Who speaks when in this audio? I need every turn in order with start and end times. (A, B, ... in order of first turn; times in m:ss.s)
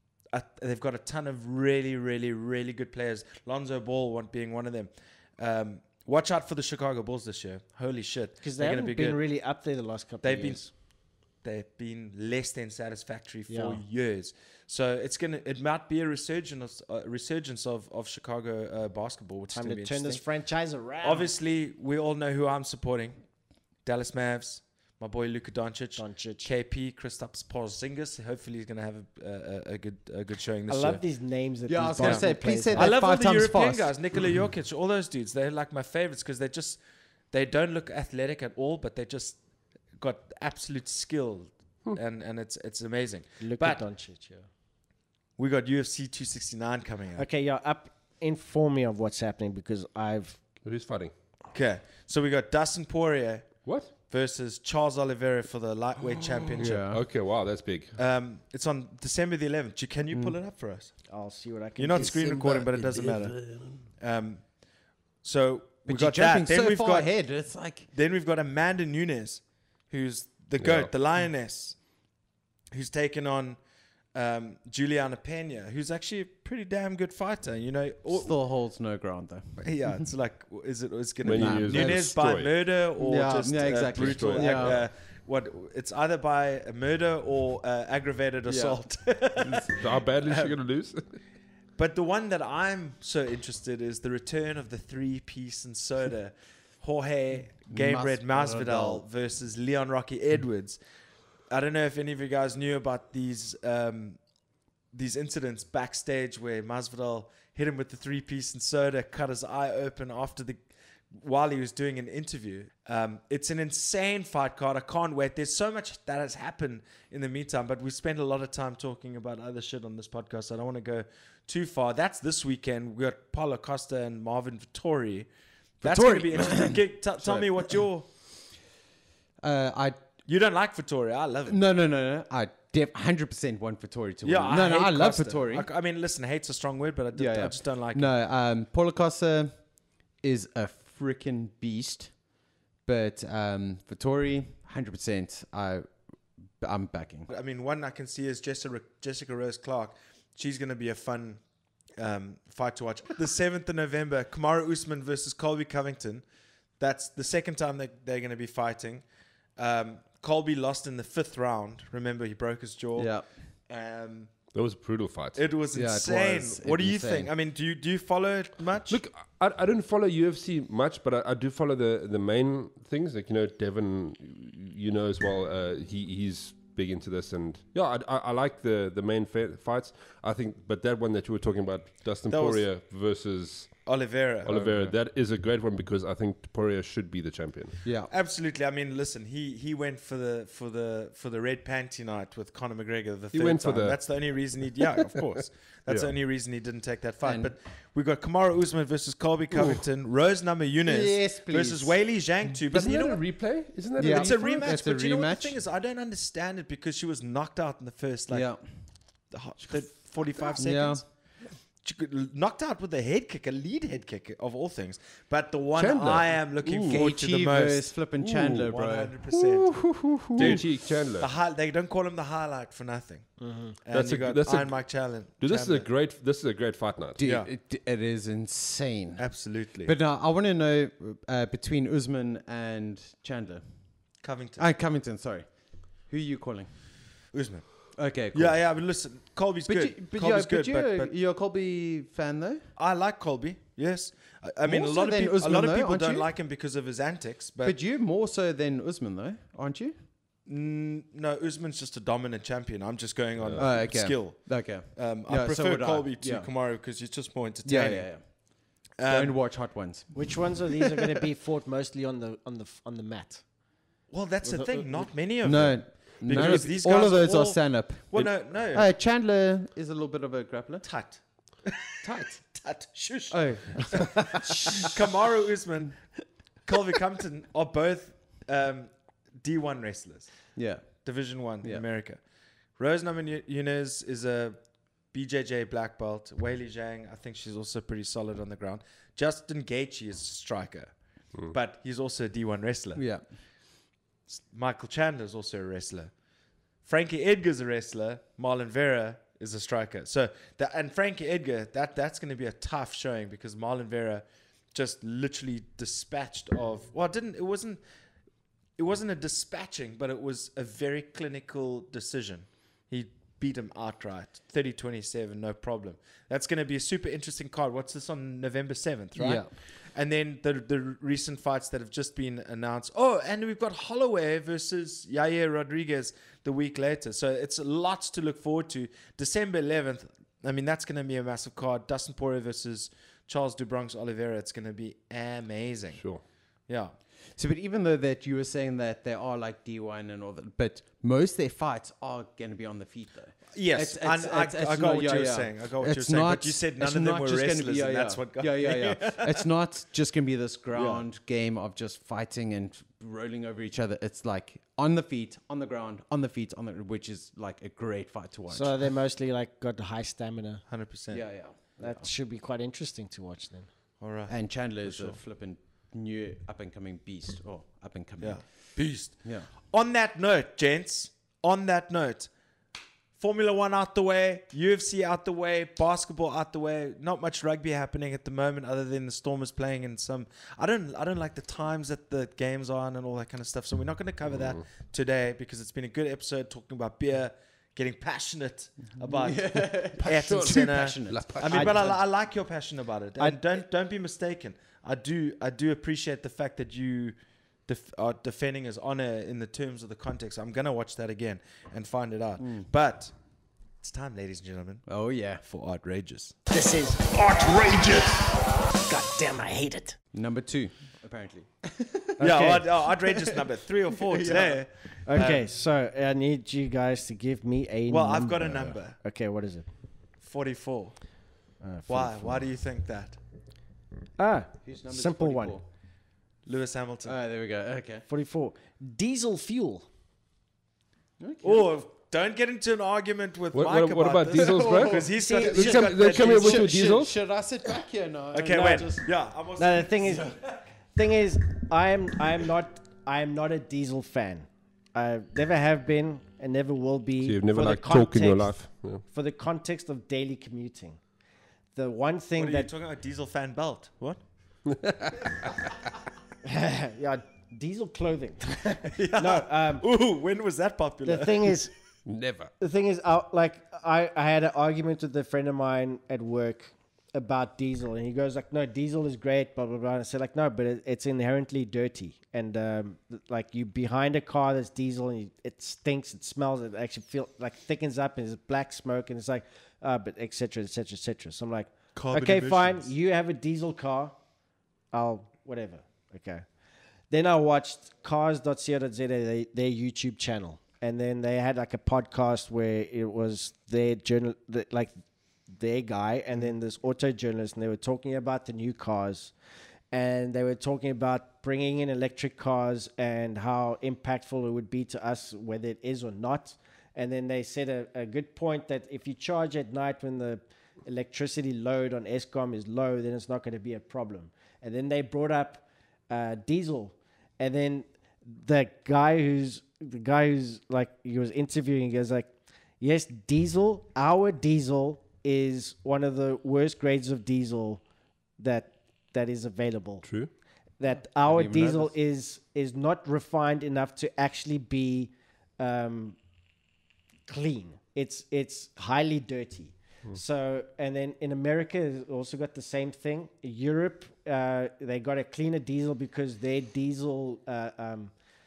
0:00.3-0:09.2 A
0:08.4-0:10.7 B
0:10.2-0:10.6 A
0:11.4-0:20.2 A
0:13.5-0:13.8 B
0:19.5-0:21.3 B
0:21.0-0:23.2 A
0:23.8-0:31.0 A
0:26.0-0:26.5 B
0:30.7-0:32.9 B
0:31.7-0:33.9 C
0:32.0-0:36.8 A
0:37.3-0:39.4 A
0:40.0-0:43.8 A
0:43.4-0:44.4 B
0:45.4-0:47.2 A
0:47.2-0:50.4 B
0:50.6-0:51.1 D
0:51.5-0:56.9 A
0:56.2-0:57.0 C
0:56.6-0:58.0 D
0:58.0-1:00.9 A
1:01.1-1:02.3 B
1:01.8-1:03.4 A
1:02.1-1:03.8 C
1:04.0-1:04.4 A
1:05.2-1:07.2 A
1:05.8-1:07.9 C
1:07.9-1:11.8 A
1:10.6-1:10.9 D
1:12.7-1:13.6 A
1:14.1-1:18.3 A
1:18.1-1:19.8 C
1:19.6-1:30.5 A
1:21.2-1:22.5 D
1:21.3-1:22.1 C
1:23.0-1:24.8 C
1:23.9-1:24.8 D
1:28.5-1:28.8 C
1:29.4-1:29.7 C
1:29.8-1:31.1 D
1:31.8-1:40.8 A
1:37.7-1:39.0 C
1:41.5-1:44.2 A
1:44.9-2:05.3 A
2:05.8-2:08.1 A
2:05.8-2:07.7 C
2:09.4-2:10.0 C
2:10.2-2:11.6 A
2:11.5-2:15.7 C
2:14.2-2:18.1 A
2:17.1-2:22.2 C
2:22.8-2:25.9 C
2:26.6-2:27.3 C
2:27.3-2:31.4 A
2:32.0-2:36.2 A
2:36.8-2:39.0 A
2:39.6-2:43.1 A
2:43.0-2:43.2 C
2:43.7-2:44.3 A
2:44.5-2:45.4 D
2:45.3-2:49.0 A
2:45.7-2:47.3 C
2:48.9-3:03.8 D
3:02.3-3:02.6 A
3:03.8-3:04.9 A
3:04.4-3:07.8 D
3:07.8-3:08.1 C
3:08.1-3:23.2 A
3:13.3-3:14.0 D
3:17.2-3:17.5 C
3:20.8-3:21.9 C
3:22.7-3:24.7 D
3:24.0-3:25.6 C
3:24.0-3:28.5 A
3:28.3-3:28.6 C
3:29.3-3:31.0 A
3:30.6-3:31.0 C
3:31.8-3:37.9 A
3:35.8-3:37.1 D
3:36.8-3:40.6 C
3:38.2-3:38.7 D
3:38.6-3:43.3 A
3:40.4-3:41.3 D
3:43.4-3:43.8 B
3:43.8-3:45.9 A
3:43.9-3:44.8 D
3:45.4-3:47.2 D
3:47.2-3:49.3 C
3:47.2-3:47.5 A
3:49.2-3:49.9 A
3:49.8-3:54.0 C
3:54.2-3:54.7 A
3:54.6-3:56.7 C
3:57.3-4:01.1 A
3:58.0-3:58.6 C
3:59.7-4:02.6 C
4:02.8-4:07.8 A
4:04.6-4:06.3 C
4:07.6-4:09.9 C
4:10.4-4:18.1 A
4:13.4-4:13.7 D
4:13.6-4:16.5 C
4:17.6-4:21.2 C
4:19.0-4:19.4 A
4:20.1-4:23.4 B
4:24.1-4:28.9 A
4:24.4-4:25.1 B
4:25.4-4:30.9 C
4:30.8-4:36.1 A
4:33.3-4:35.0 C
4:36.6-4:40.3 A
4:40.6-4:41.0 C
4:41.0-4:42.2 A
4:42.8-4:44.6 A
4:45.1-4:50.9 A
4:51.5-4:53.1 A
4:53.0-4:53.2 C
4:54.3-4:56.1 A
4:56.8-5:07.8 A
5:08.8-5:36.0 A
5:19.2-5:19.5 C
5:36.0-5:36.2 D
5:36.7-5:36.9 A
5:37.4-5:58.8 C
5:43.5-5:49.5 A
5:50.7-5:51.0 A
5:58.5-6:00.6 B
6:00.7-6:01.2 A
6:01.1-6:02.1 C
6:01.8-6:03.7 B
6:04.0-6:05.2 A
6:04.3-6:08.7 C
6:08.2-6:12.3 A
6:13.2-6:43.1 A
6:29.0-6:31.9 C
6:30.0-6:31.9 D
6:31.5-6:31.8 B
6:42.4-6:42.6 C
6:43.8-6:46.4 A
6:44.9-6:45.4 C
6:46.5-6:50.0 B
6:50.1-6:54.6 C
6:52.2-6:52.7 B
6:52.2-6:55.4 A
6:55.0-6:59.7 B
6:57.9-6:59.0 A
7:00.2-7:01.0 A
7:01.6-7:02.5 B
7:01.9-7:03.2 A
7:04.2-7:05.6 B
7:04.6-7:05.6 C
7:06.4-7:07.1 A
7:07.0-7:08.0 C
7:08.1-7:09.8 B
7:11.2-7:11.6 C
7:11.4-7:16.7 A
7:13.5-7:17.1 D
7:14.3-7:19.1 C
7:15.2-7:15.6 B
7:18.3-7:20.4 A
7:18.5-7:18.9 B
7:19.6-7:20.3 B
7:20.9-7:31.0 B
7:27.2-7:29.0 D
7:31.7-7:32.7 B
7:32.4-7:34.2 A
7:34.7-7:35.5 D
7:36.4-7:39.8 B
7:38.8-7:41.6 A
7:41.0-7:41.7 B
7:42.0-7:42.5 D
7:42.6-8:04.2 B
8:01.9-8:02.9 A
8:04.9-8:06.4 B
8:07.1-8:14.9 B
8:15.5-8:19.3 B
8:19.9-8:47.8 B
8:48.4-8:50.0 B
8:50.0-8:50.3 D
8:50.8-8:56.2 B
8:51.2-8:51.9 C
8:57.3-9:08.1 B